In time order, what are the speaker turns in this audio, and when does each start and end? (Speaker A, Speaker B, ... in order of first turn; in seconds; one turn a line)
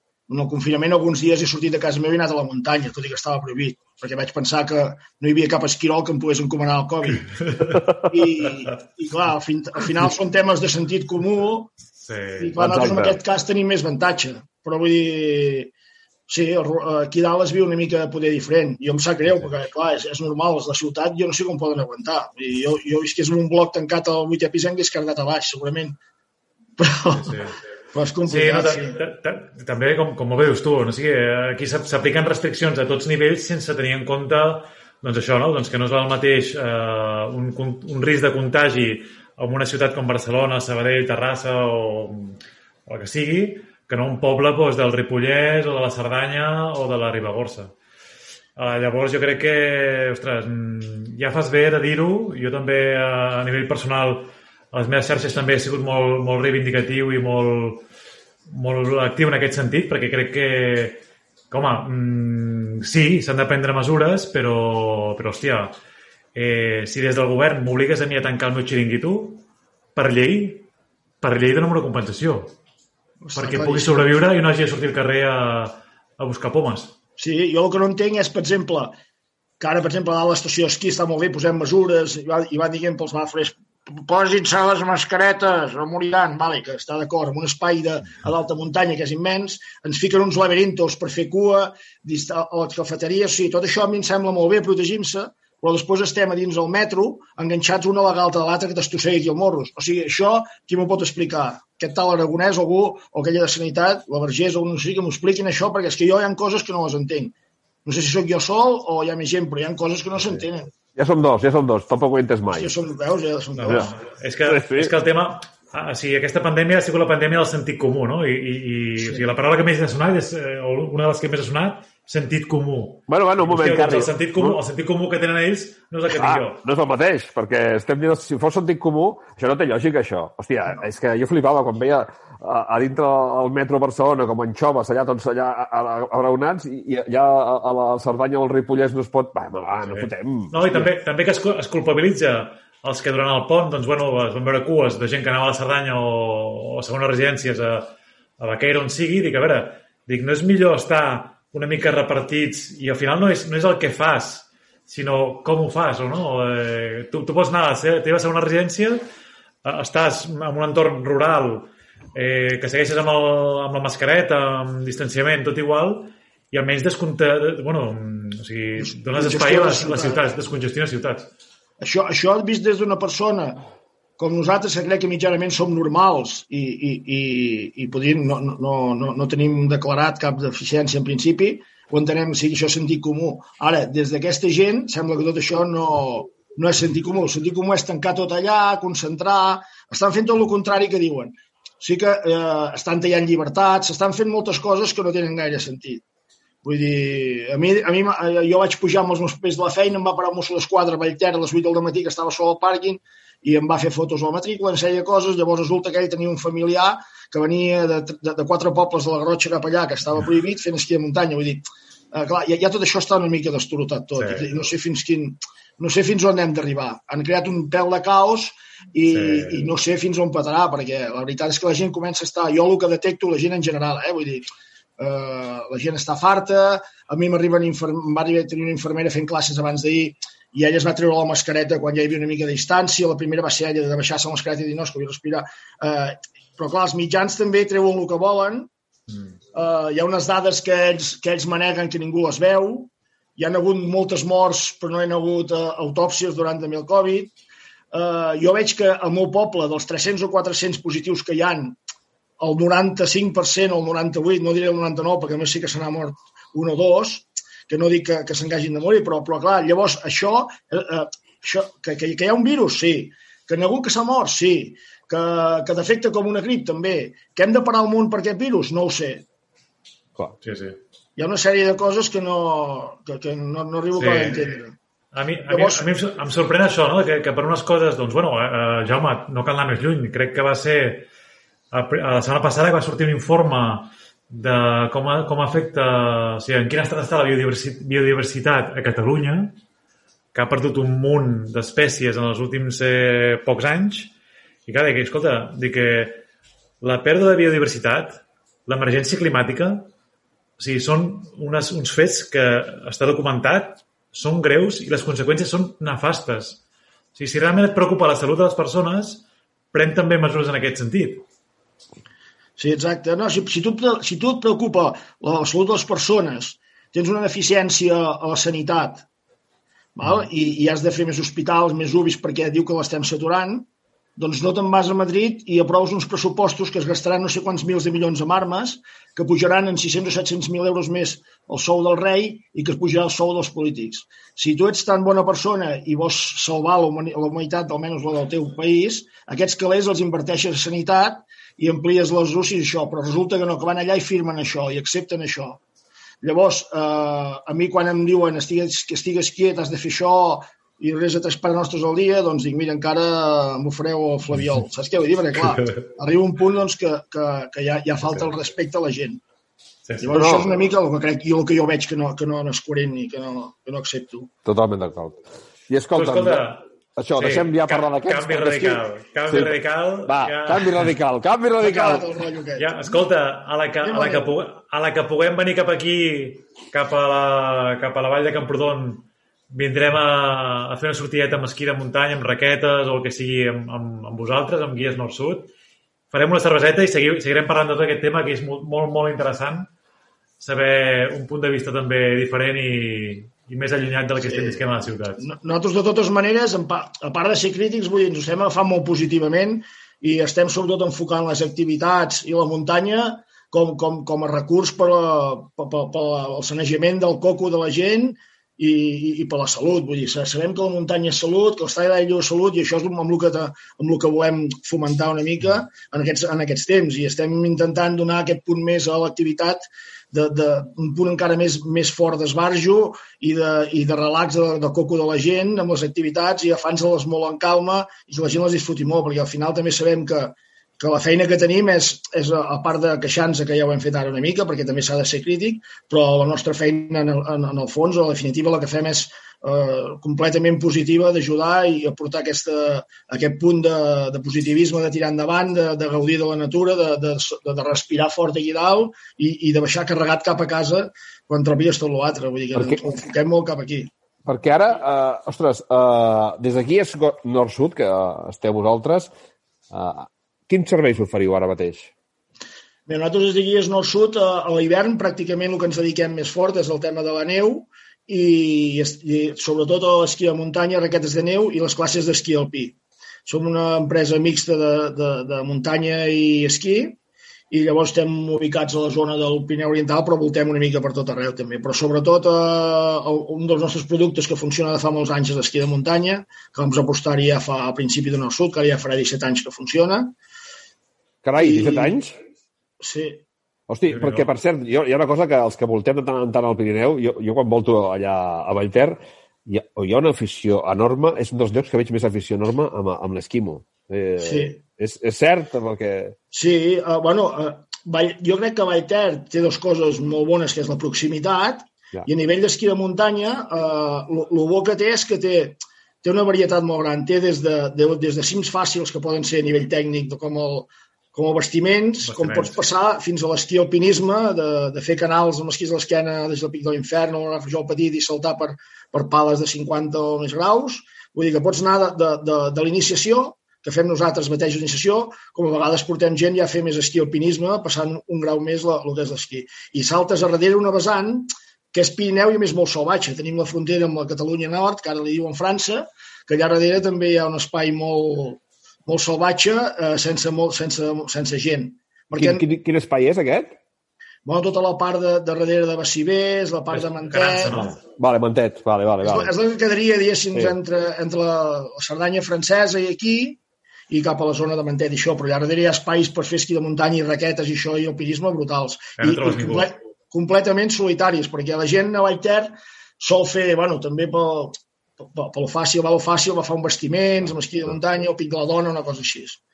Speaker A: 0.3-7.4
Speaker B: 7.1-7.8
Speaker A: 8.0-11.7
Speaker B: 12.0-12.8
Speaker A: 12.4-15.7
Speaker C: 12.6-13.2
Speaker A: 16.3-25.9
Speaker A: 26.8-27.4
Speaker B: 27.1-27.6
Speaker A: 27.9-29.0
Speaker B: 28.2-47.7
Speaker B: 48.6-57.8
Speaker B: 58.5-65.7
Speaker B: 66.3-70.7
Speaker B: 71.2-72.5
Speaker A: 73.2-74.0
Speaker B: 73.3-76.9
Speaker A: 77.2-79.0
Speaker A: 79.6-107.3
Speaker A: 107.8-110.7
Speaker C: 111.0-112.7
Speaker A: 112.5-113.9
Speaker B: 113.5-126.6
Speaker C: 114.5-114.9
Speaker C: 123.1-124.6
Speaker C: 126.1-140.9
Speaker B: 139.8-159.0
Speaker B: 159.6-171.3
Speaker A: 168.8-170.3
Speaker A: 171.8-173.6
Speaker A: 174.2-196.0
Speaker A: 196.6-224.4
Speaker B: 214.2-214.5
Speaker B: 219.1-219.7
Speaker A: 225.0-238.7
Speaker A: 239.5-247.3
Speaker A: 247.9-251.8
Speaker A: 252.4-269.2
Speaker B: 270.4-270.8
Speaker A: 271.2-274.7
Speaker B: 273.9-274.5
Speaker B: 275.1-281.1
Speaker A: 275.5-275.9
Speaker B: 281.7-289.6
Speaker B: 290.3-294.1
Speaker B: 294.7-296.2
Speaker B: 296.8-299.9
Speaker B: 300.6-306.6
Speaker B: 307.1-311.2
Speaker A: 312.6-319.0
Speaker A: 319.9-345.6
Speaker A: 346.2-359.2
Speaker B: 359.8-360.3
Speaker A: 360.0-364.3
Speaker C: 360.1-360.4
Speaker C: 364.4-369.5
Speaker B: 365.9-366.6
Speaker B: 367.1-370.9
Speaker C: 370.1-372.0
Speaker A: 371.6-372.8
Speaker B: 372.6-385.5
Speaker A: 373.8-374.3
Speaker B: 386.1-389.7
Speaker B: 390.4-395.2
Speaker A: 394.2-394.6
Speaker A: 395.2-453.9
Speaker C: 452.5-452.8
Speaker C: 454.2-459.1
Speaker C: 459.7-461.9
Speaker A: 462.9-477.0
Speaker A: 477.5-490.1
Speaker C: 491.2-492.2
Speaker A: 491.4-492.0
Speaker A: 492.8-493.2
Speaker C: 493.7-506.1
Speaker B: 493.9-494.3
Speaker A: 504.2-504.6
Speaker A: 506.3-552.4
Speaker B: 522.0-522.6
Speaker C: 552.1-553.6
Speaker A: 554.2-557.6
Speaker B: 556.7-557.7
Speaker C: 557.5-559.3
Speaker A: 559.0-563.4
Speaker A: 563.9-574.6
Speaker B: 569.0-569.7
Speaker A: 575.1-579.4